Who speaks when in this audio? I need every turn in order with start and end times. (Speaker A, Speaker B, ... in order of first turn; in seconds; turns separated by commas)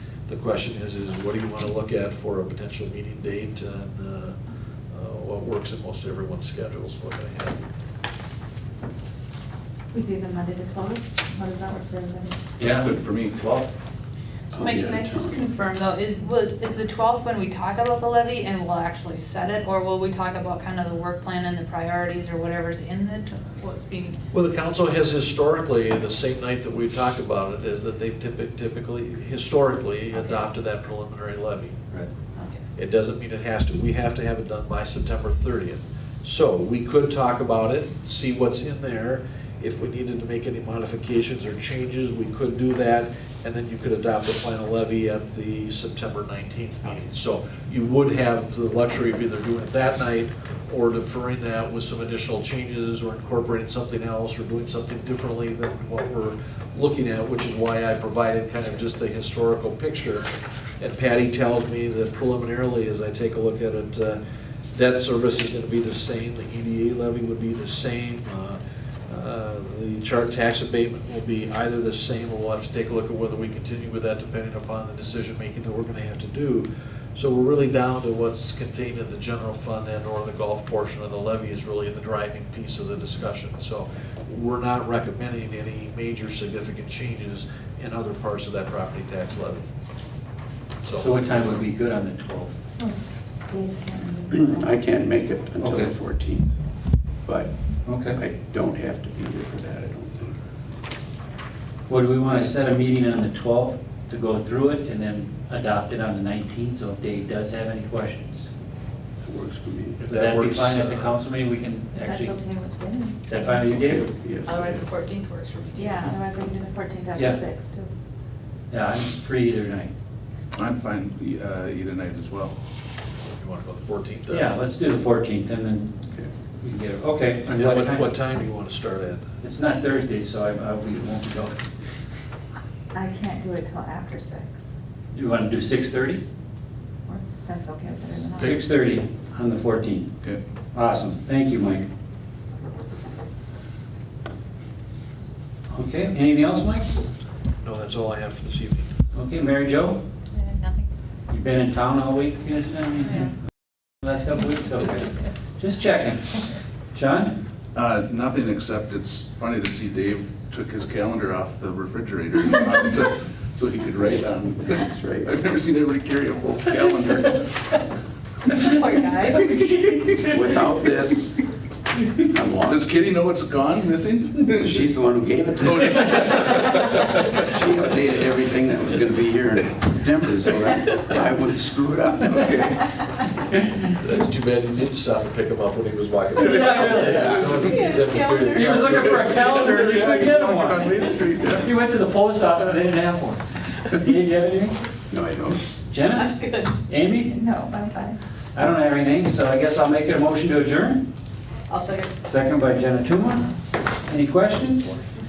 Speaker A: 0.3-4.4, Speaker A: 4.9-7.6, Speaker B: 9.9-12.4, Speaker C: 12.6-13.7, Speaker D: 12.6-13.4, Speaker E: 14.5-24.2, Speaker F: 14.5-15.4, Speaker A: 24.3-31.9, Speaker E: 30.1-30.4, Speaker E: 32.4-32.6, Speaker A: 32.7-60.3, Speaker A: 60.8-64.2, Speaker A: 64.7-89.7, Speaker A: 90.8-91.4, Speaker C: 91.0-92.5, Speaker B: 92.8-94.8, Speaker F: 94.3-96.5, Speaker C: 95.6-95.9, Speaker F: 97.2-97.5, Speaker C: 97.9-98.2, Speaker F: 98.0-100.4, Speaker C: 101.9-108.5, Speaker F: 109.2-110.0, Speaker A: 110.0-111.2, Speaker C: 110.0-112.4, Speaker B: 112.0-113.7, Speaker C: 113.2-114.1, Speaker F: 113.8-114.9, Speaker E: 114.4-116.1, Speaker B: 115.7-117.9, Speaker C: 117.1-117.4, Speaker C: 118.7-119.9, Speaker D: 120.5-122.5, Speaker A: 123.3-124.5, Speaker C: 124.3-125.9, Speaker C: 126.6-128.1, Speaker A: 127.5-129.3, Speaker C: 129.4-131.7, Speaker B: 132.9-134.6, Speaker C: 135.1-136.2, Speaker B: 137.1-138.6, Speaker C: 138.4-140.1, Speaker C: 140.7-141.9, Speaker C: 145.7-146.9, Speaker A: 147.6-148.9, Speaker C: 149.1-150.0, Speaker E: 150.3-150.9, Speaker C: 151.3-153.3, Speaker C: 154.0-157.4, Speaker D: 157.7-167.4, Speaker F: 164.8-165.3, Speaker E: 168.5-170.2, Speaker F: 170.2-171.4, Speaker F: 172.2-172.8, Speaker D: 172.6-174.8, Speaker F: 174.5-176.2, Speaker D: 175.6-177.4, Speaker F: 177.3-182.5, Speaker D: 182.2-182.8, Speaker A: 184.0-189.3, Speaker C: 186.4-187.5, Speaker F: 187.0-187.5, Speaker E: 187.5-188.9, Speaker C: 188.5-191.0, Speaker D: 188.8-191.7, Speaker C: 191.5-194.8, Speaker F: 195.1-195.6, Speaker C: 195.9-196.3, Speaker E: 196.2-196.8, Speaker C: 196.9-197.4, Speaker B: 197.3-198.2, Speaker C: 198.5-201.1, Speaker E: 201.7-202.1, Speaker C: 202.2-203.5, Speaker C: 204.0-204.9